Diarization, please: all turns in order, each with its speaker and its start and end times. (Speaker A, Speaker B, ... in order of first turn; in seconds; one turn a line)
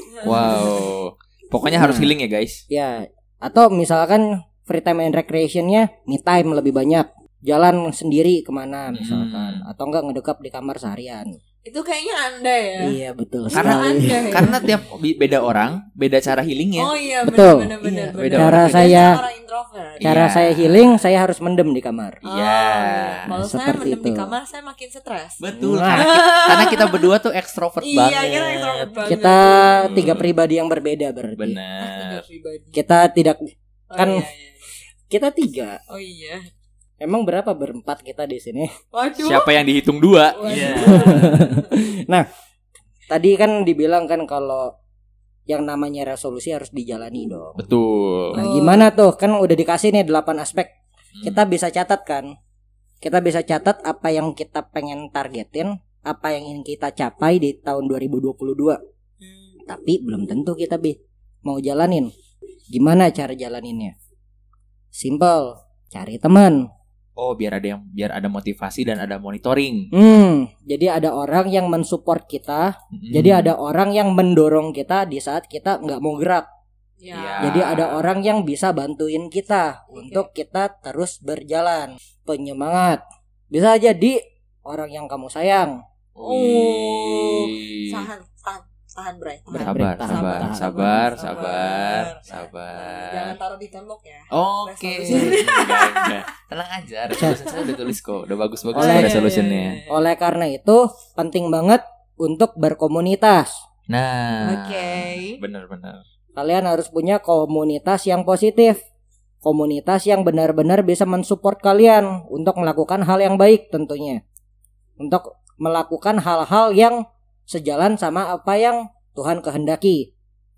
Speaker A: 0.1-0.7
Speaker B: 0.2-2.6
Speaker C: 1.7-2.1
Speaker C: 2.7-11.4
Speaker B: 8.9-9.7
Speaker A: 11.7-13.0
Speaker C: 12.8-14.3
Speaker A: 13.5-14.6
Speaker B: 13.5-16.9
Speaker A: 16.8-20.2
Speaker C: 17.2-19.2
Speaker B: 18.1-19.1
Speaker B: 20.0-20.9
Speaker C: 20.0-22.2
Speaker B: 22.2-23.2
Speaker A: 22.3-27.1
Speaker C: 23.3-24.3
Speaker B: 25.4-29.0
Speaker C: 25.6-26.1
Speaker A: 27.8-30.0
Speaker C: 29.1-31.6
Speaker B: 29.7-30.3
Speaker B: 31.4-32.2
Speaker A: 31.8-32.8
Speaker C: 32.7-34.3
Speaker A: 33.9-34.8
Speaker C: 35.1-35.8
Speaker A: 35.9-36.5
Speaker C: 37.0-38.7
Speaker A: 38.9-39.6
Speaker B: 39.2-41.4
Speaker A: 40.3-41.9
Speaker C: 40.8-42.3
Speaker C: 43.1-44.8
Speaker C: 45.5-47.6
Speaker B: 47.6-48.4
Speaker A: 48.3-48.9
Speaker C: 48.3-52.3
Speaker B: 51.1-51.4
Speaker C: 53.0-58.8
Speaker A: 59.2-59.6
Speaker C: 59.7-62.1
Speaker C: 62.7-64.0
Speaker C: 64.9-66.7
Speaker B: 67.2-69.9
Speaker C: 69.9-76.5
Speaker B: 72.9-73.5
Speaker A: 77.0-77.5
Speaker B: 77.1-78.1
Speaker C: 77.4-85.8
Speaker A: 79.9-80.3
Speaker B: 86.2-88.1
Speaker A: 86.2-96.2
Speaker C: 89.5-91.3
Speaker B: 89.6-93.4
Speaker B: 94.3-99.8
Speaker C: 95.1-95.4
Speaker A: 97.2-97.8
Speaker C: 98.7-99.3
Speaker A: 98.8-100.1
Speaker C: 99.9-103.6
Speaker B: 103.9-106.0
Speaker A: 104.4-105.4
Speaker C: 106.4-108.8
Speaker C: 109.4-114.2
Speaker C: 115.0-120.1